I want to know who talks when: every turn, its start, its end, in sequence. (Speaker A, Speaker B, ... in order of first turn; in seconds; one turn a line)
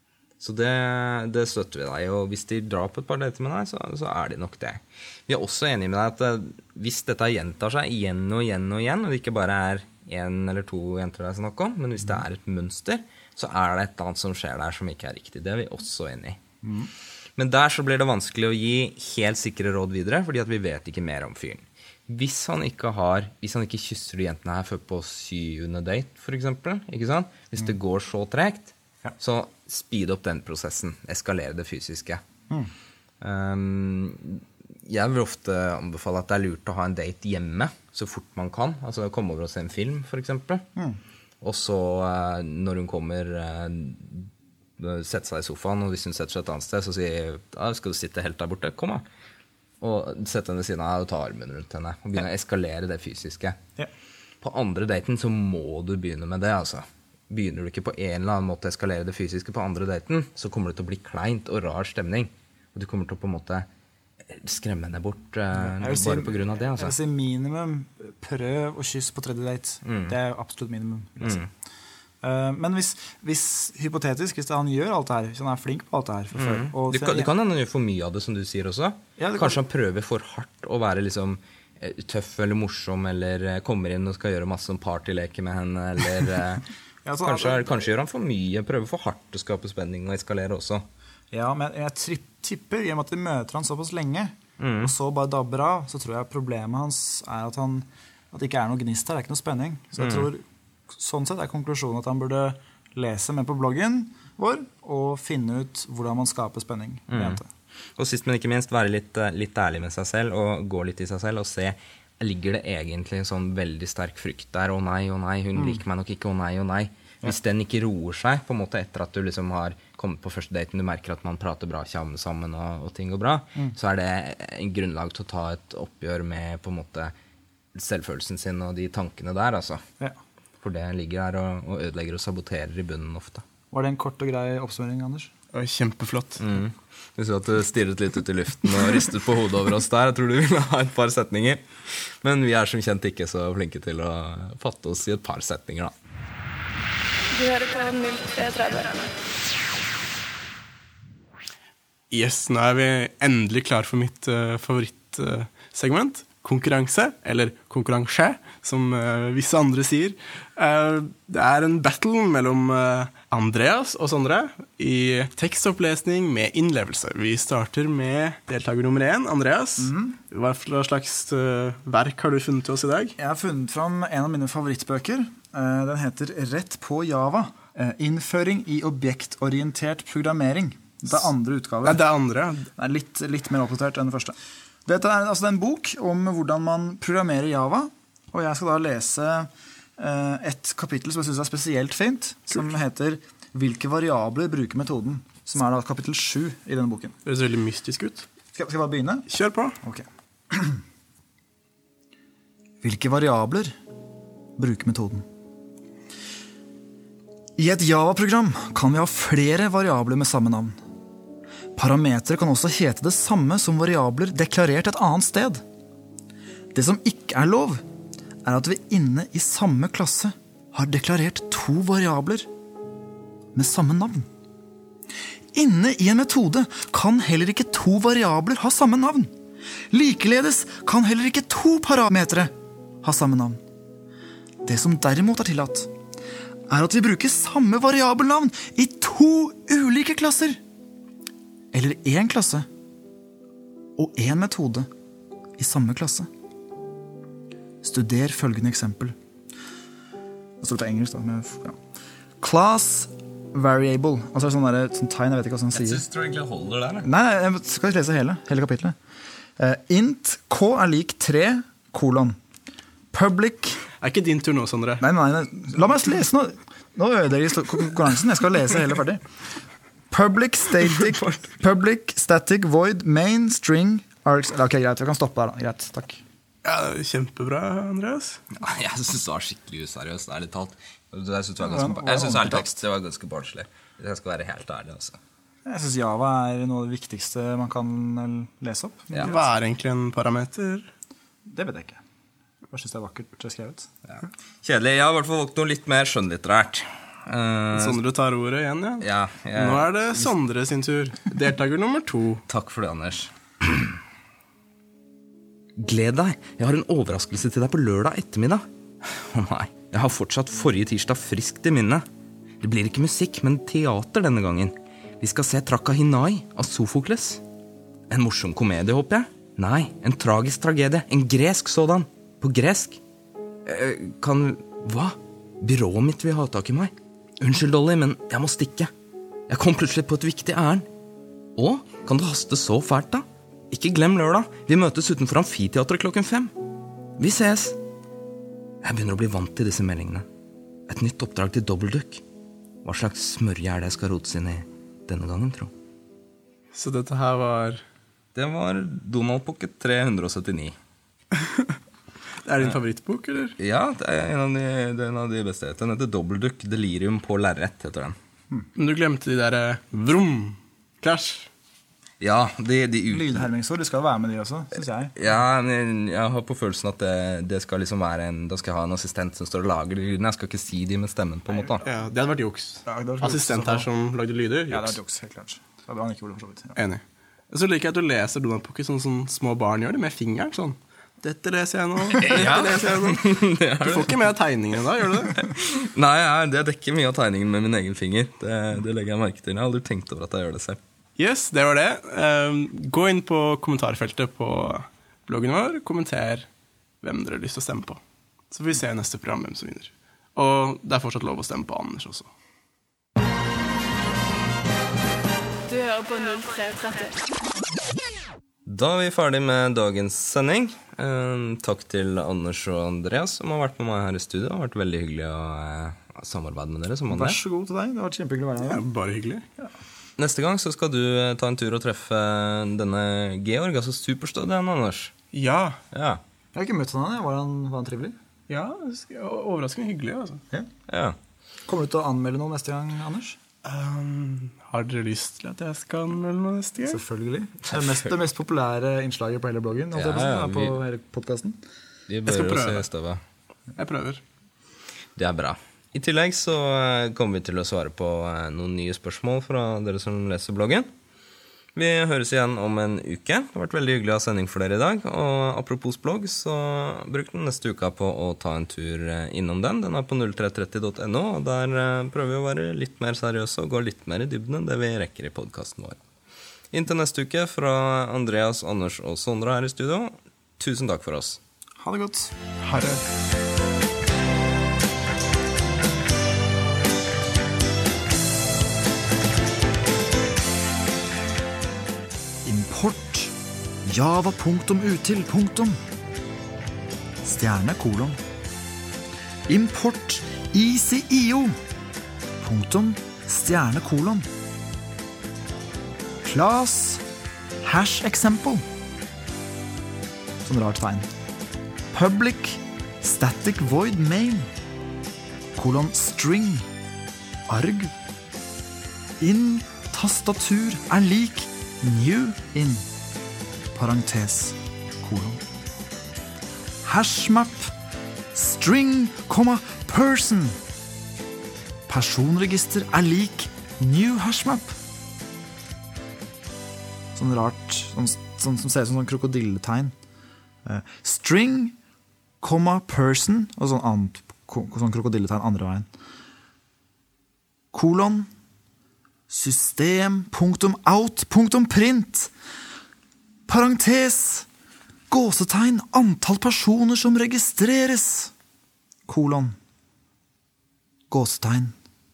Speaker A: 0.4-16.4
Speaker B: 16.6-16.9
Speaker A: 17.4-32.2
Speaker A: 33.2-40.6
Speaker A: 41.4-49.0
Speaker A: 49.8-53.6
Speaker A: 54.4-63.7
Speaker A: 64.3-66.9
Speaker B: 65.5-71.4
Speaker A: 69.8-70.1
Speaker A: 71.2-71.5
Speaker B: 72.2-77.3
Speaker A: 76.3-86.7
Speaker B: 79.2-79.6
Speaker B: 87.0-87.8
Speaker A: 87.2-90.8
Speaker B: 91.3-107.5
Speaker A: 94.6-94.9
Speaker A: 100.0-100.3
Speaker A: 107.1-107.4
Speaker A: 108.0-127.1
Speaker A: 127.7-129.8
Speaker A: 130.6-133.4
Speaker B: 133.7-135.3
Speaker C: 135.5-136.4
Speaker A: 136.4-145.9
Speaker D: 147.3-149.1
Speaker C: 152.1-173.1
Speaker B: 169.8-170.2
Speaker B: 173.2-182.0
Speaker C: 181.8-182.7
Speaker B: 182.8-184.3
Speaker B: 184.8-197.2
Speaker C: 197.2-198.3
Speaker B: 198.5-199.3
Speaker C: 199.3-199.8
Speaker B: 199.8-200.8
Speaker B: 202.8-203.7
Speaker B: 204.6-205.2
Speaker B: 207.6-210.7
Speaker B: 211.8-215.6
Speaker B: 216.7-217.8
Speaker B: 218.4-222.5
Speaker B: 223.5-224.3
Speaker B: 225.5-229.3
Speaker B: 229.9-233.6
Speaker B: 234.6-235.9
Speaker B: 236.7-240.6
Speaker B: 241.7-242.7
Speaker B: 244.0-244.9
Speaker B: 245.6-246.3
Speaker B: 247.8-249.1
Speaker B: 250.6-251.8
Speaker B: 252.4-256.0
Speaker A: 255.7-257.1
Speaker B: 257.0-258.9
Speaker B: 259.6-262.4
Speaker B: 263.1-263.8
Speaker C: 264.0-265.0
Speaker B: 265.0-269.2
Speaker B: 270.1-276.2
Speaker C: 276.6-278.4
Speaker A: 278.5-285.2
Speaker B: 281.6-282.7
Speaker B: 285.6-289.4
Speaker C: 289.2-290.9
Speaker B: 291.5-292.0
Speaker B: 292.7-293.9
Speaker A: 294.1-298.0
Speaker C: 297.7-302.4
Speaker A: 299.0-300.3
Speaker A: 302.5-304.0
Speaker A: 305.8-312.0
Speaker A: 312.6-317.4
Speaker A: 318.1-323.0
Speaker A: 323.6-328.9
Speaker A: 329.5-330.9
Speaker A: 331.6-336.5
Speaker A: 337.2-337.8
Speaker A: 338.8-340.2
Speaker A: 340.9-342.2
Speaker A: 342.8-345.7
Speaker C: 346.7-347.8
Speaker A: 348.3-350.8
Speaker C: 351.3-351.8
Speaker C: 352.4-353.5
Speaker A: 353.6-358.1
Speaker C: 358.8-361.5
Speaker A: 362.2-363.5
Speaker B: 363.1-365.1
Speaker A: 365.1-371.9
Speaker B: 371.5-371.7
Speaker C: 371.8-375.0
Speaker B: 372.9-373.9
Speaker B: 374.7-376.8
Speaker C: 376.8-385.5
Speaker A: 382.2-384.3
Speaker A: 385.4-390.8
Speaker C: 391.2-396.5
Speaker C: 397.0-402.3
Speaker D: 405.6-407.2
Speaker A: 408.7-417.4
Speaker B: 417.1-418.8
Speaker C: 418.6-419.4
Speaker A: 420.2-425.1
Speaker C: 425.3-425.8
Speaker A: 425.9-426.2
Speaker B: 426.5-428.1
Speaker C: 428.5-430.4
Speaker A: 430.9-431.1
Speaker B: 431.7-433.4
Speaker C: 433.6-437.0
Speaker B: 436.9-441.6
Speaker A: 437.6-438.1
Speaker A: 439.9-440.8
Speaker A: 442.1-443.2
Speaker C: 442.3-442.9
Speaker C: 443.8-444.2
Speaker A: 445.2-450.9
Speaker A: 451.7-466.0
Speaker A: 466.7-471.4
Speaker B: 471.8-473.0
Speaker B: 482.4-483.3
Speaker B: 483.9-485.8
Speaker B: 487.2-488.2
Speaker B: 489.5-491.6
Speaker B: 492.4-494.2
Speaker B: 496.2-497.0
Speaker B: 497.6-498.6
Speaker B: 500.4-501.1
Speaker B: 501.9-504.5
Speaker B: 505.6-506.7
Speaker B: 507.5-507.9
Speaker B: 509.2-512.8
Speaker B: 513.7-515.4
Speaker B: 516.8-517.7
Speaker B: 518.3-520.6
Speaker B: 521.9-524.7
Speaker B: 527.1-529.9
Speaker B: 530.6-531.8
Speaker B: 532.4-535.9
Speaker B: 537.7-538.3
Speaker B: 539.3-542.3
Speaker B: 543.5-544.5
Speaker B: 545.1-548.3
Speaker B: 549.1-549.6
Speaker B: 551.1-551.7